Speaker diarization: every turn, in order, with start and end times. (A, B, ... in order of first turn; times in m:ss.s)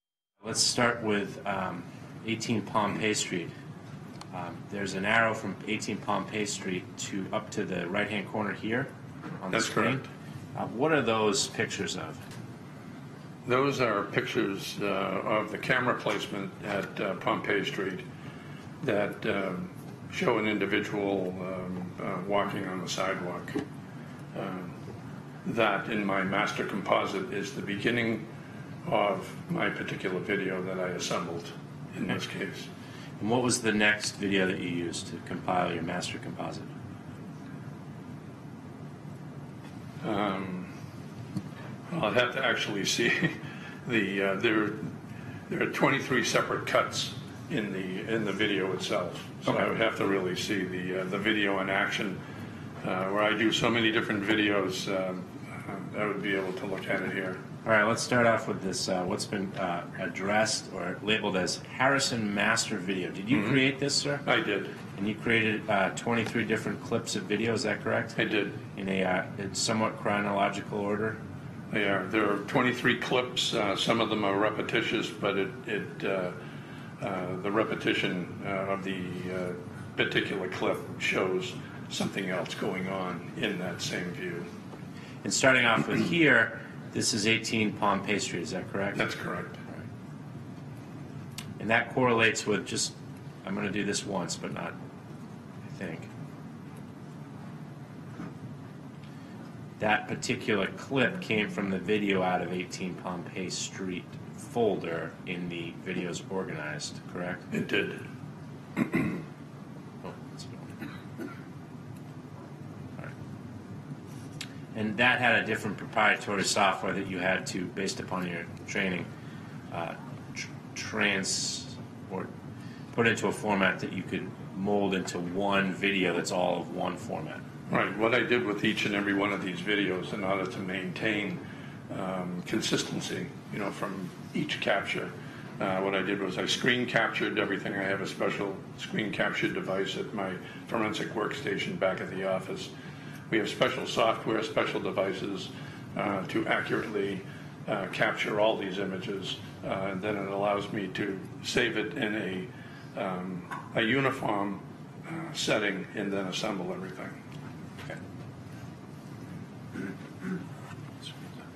0:00.4-0:03.5 A
0:04.3-0:10.0 A
0:09.5-0:10.0 B
0:10.5-0:12.2 A
0:13.4-0:18.0 B
0:18.8-0:23.6 B
0:24.3-0:24.8 B
0:25.4-0:28.3 B
0:28.8-0:32.7 B
0:33.2-0:36.7 A
0:40.0-0:40.7 B
0:41.9-0:44.9 B
0:45.5-0:52.2 B
0:52.8-0:57.4 B
0:57.6-1:04.2 A
1:03.3-1:03.7 B
1:04.2-1:04.8 B
1:04.9-1:11.2 A
1:08.2-1:08.6 B
1:11.7-1:16.4 B
1:17.0-1:24.5 B
1:25.2-1:29.0 A
1:28.9-1:29.6 B
1:31.6-1:34.8 A
1:35.6-1:36.1 A
1:39.8-1:47.5 A
1:47.5-1:48.0 B
1:48.8-1:49.2 B
1:50.0-1:50.8 A
1:54.7-1:59.1 A
1:59.7-2:02.3 A
2:02.9-2:07.4 A
2:07.7-2:22.7 B
2:23.3-2:37.2 B
2:41.0-2:41.3 A